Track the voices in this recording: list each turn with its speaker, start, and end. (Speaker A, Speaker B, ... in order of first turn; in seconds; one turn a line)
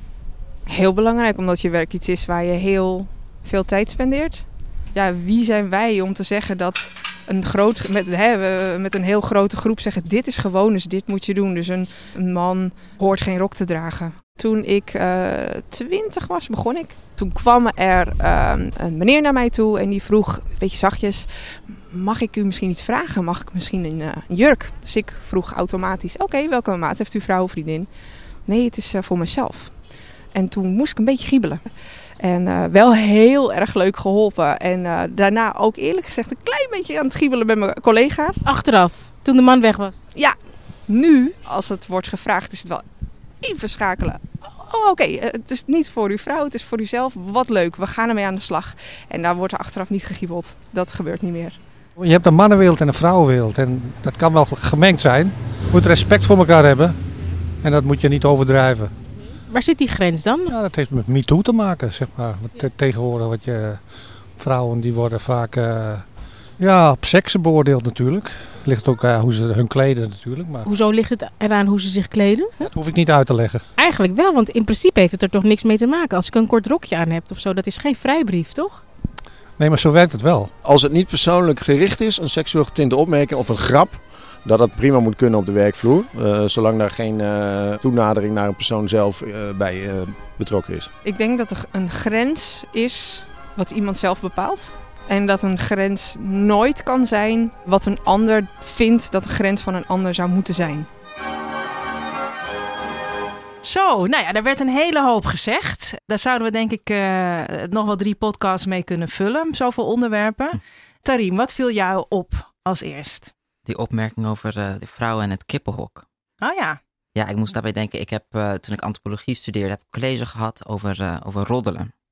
Speaker A: 0.7-38.5
Speaker B: 38.4-40.0
Speaker A: 40.1-51.6
Speaker C: 52.0-57.0
Speaker C: 57.6-59.0
Speaker B: 59.4-60.5
Speaker C: 60.5-70.7
Speaker B: 70.6-72.7
Speaker C: 72.6-73.6
Speaker B: 73.8-78.8
Speaker C: 79.5-80.5
Speaker D: 80.6-90.9
Speaker A: 91.0-100.9
Speaker E: 103.6-113.3
Speaker F: 113.7-116.0
Speaker E: 116.4-116.8
Speaker F: 117.1-121.9